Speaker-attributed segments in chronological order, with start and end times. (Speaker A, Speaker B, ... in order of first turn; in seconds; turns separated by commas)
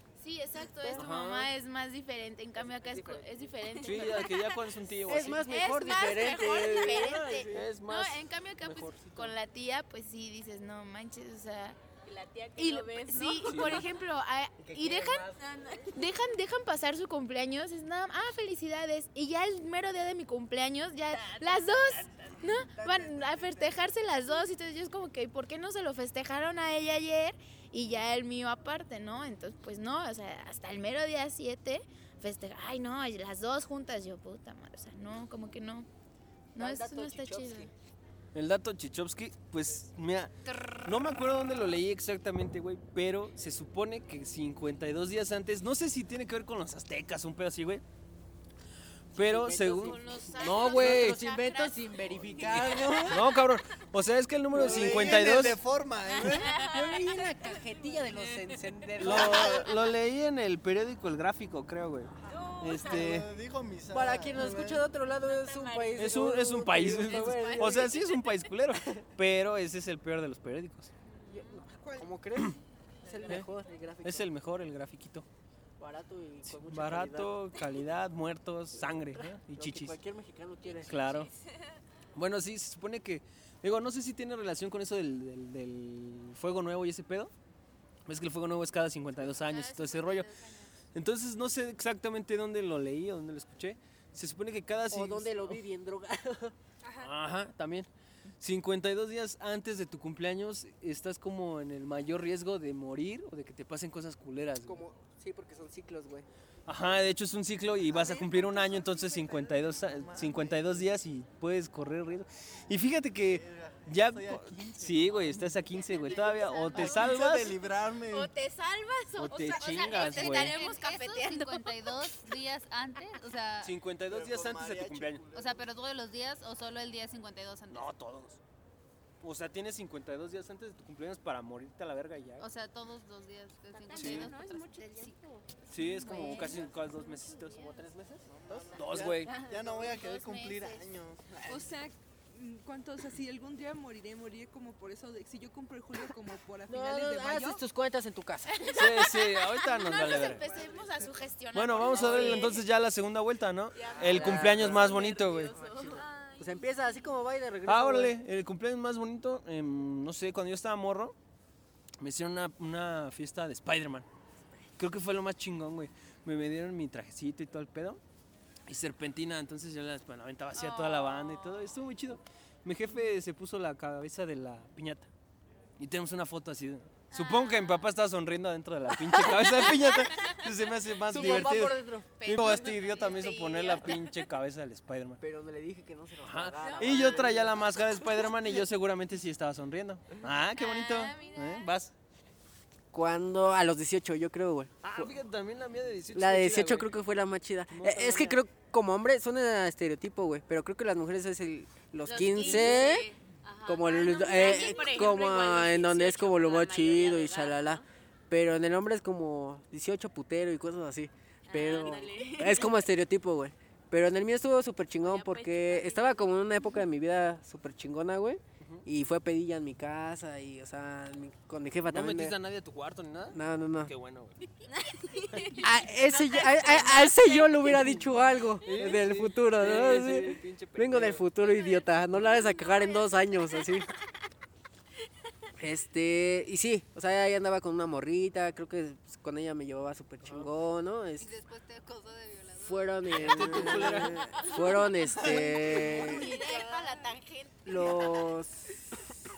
Speaker A: 0.2-4.6, Speaker B: 0.9-1.5, Speaker B: 3.8-5.6, Speaker C: 5.0-7.5, Speaker A: 5.3-11.8, Speaker B: 7.5-9.3, Speaker D: 12.1-13.8, Speaker A: 12.6-15.3, Speaker B: 13.4-13.9, Speaker C: 14.6-15.3, Speaker D: 15.4-15.9, Speaker A: 15.8-35.9, Speaker C: 22.7-23.7, Speaker A: 36.5-37.7, Speaker C: 36.5-37.7, Speaker B: 38.3-47.8, Speaker B: 49.1-51.2, Speaker C: 49.1-53.3, Speaker A: 49.6-53.0, Speaker B: 52.5-55.6, Speaker E: 54.5-56.6, Speaker C: 54.5-55.2, Speaker C: 56.5-59.6, Speaker B: 59.0-63.3, Speaker D: 62.3-62.6, Speaker E: 62.7-64.9, Speaker C: 63.9-68.0, Speaker B: 66.0-70.9, Speaker A: 67.2-68.0, Speaker C: 71.3-74.3, Speaker F: 71.6-72.1, Speaker B: 74.0-75.2, Speaker C: 75.8-77.3, Speaker B: 76.5-80.0, Speaker C: 79.2-81.1, Speaker B: 80.8-81.3, Speaker B: 82.1-87.3, Speaker B: 88.1-90.3, Speaker A: 89.3-90.7, Speaker B: 90.9-95.6, Speaker C: 94.9-96.5, Speaker B: 97.0-97.9, Speaker B: 98.4-104.8, Speaker C: 104.6-106.2, Speaker B: 106.7-117.5, Speaker E: 107.9-110.9, Speaker E: 113.2-118.3, Speaker A: 115.8-117.2, Speaker A: 118.1-122.0, Speaker B: 119.2-120.6, Speaker G: 119.3-123.7, Speaker B: 123.6-125.2, Speaker E: 124.0-125.7, Speaker G: 125.3-127.9, Speaker B: 127.7-128.4, Speaker B: 129.2-132.4, Speaker G: 132.4-135.1, Speaker D: 133.7-135.4, Speaker B: 133.9-134.3, Speaker B: 135.7-137.7, Speaker A: 135.8-137.6, Speaker C: 136.0-136.6, Speaker C: 137.5-138.9, Speaker E: 138.2-141.7, Speaker B: 138.7-139.4, Speaker A: 139.3-140.8, Speaker F: 141.4-147.6, Speaker C: 146.7-148.7, Speaker A: 148.5-152.6, Speaker B: 148.7-150.5, Speaker F: 150.1-151.1, Speaker B: 151.5-155.6, Speaker C: 152.0-152.4, Speaker D: 153.7-156.1, Speaker C: 154.0-158.1, Speaker B: 157.7-161.1, Speaker B: 162.0-164.1, Speaker B: 164.8-168.0, Speaker B: 168.7-175.1, Speaker A: 170.6-171.5, Speaker B: 175.8-185.2, Speaker A: 177.1-177.8, Speaker A: 179.7-180.3, Speaker C: 181.1-182.4, Speaker A: 182.2-184.1, Speaker C: 185.2-187.6, Speaker B: 186.2-191.9, Speaker A: 186.6-187.4, Speaker A: 190.5-191.7, Speaker C: 192.9-195.1, Speaker B: 194.8-197.0, Speaker C: 196.1-203.1, Speaker B: 197.7-198.4, Speaker D: 202.1-207.8, Speaker B: 202.4-202.8, Speaker A: 202.6-202.9, Speaker C: 203.6-222.4, Speaker A: 204.3-205.1, Speaker D: 211.4-212.8, Speaker D: 215.0-216.3, Speaker B: 221.8-224.4, Speaker C: 223.3-223.9, Speaker D: 224.8-227.8, Speaker C: 225.5-233.9, Speaker B: 227.7-228.0, Speaker B: 228.6-231.3, Speaker A: 232.6-233.1, Speaker C: 235.6-241.3, Speaker B: 240.2-240.5, Speaker G: 241.2-244.2, Speaker C: 242.6-246.4, Speaker B: 243.1-244.3, Speaker A: 244.3-245.1, Speaker E: 245.1-245.9, Speaker A: 245.7-248.3, Speaker G: 245.8-247.1, Speaker C: 247.6-248.8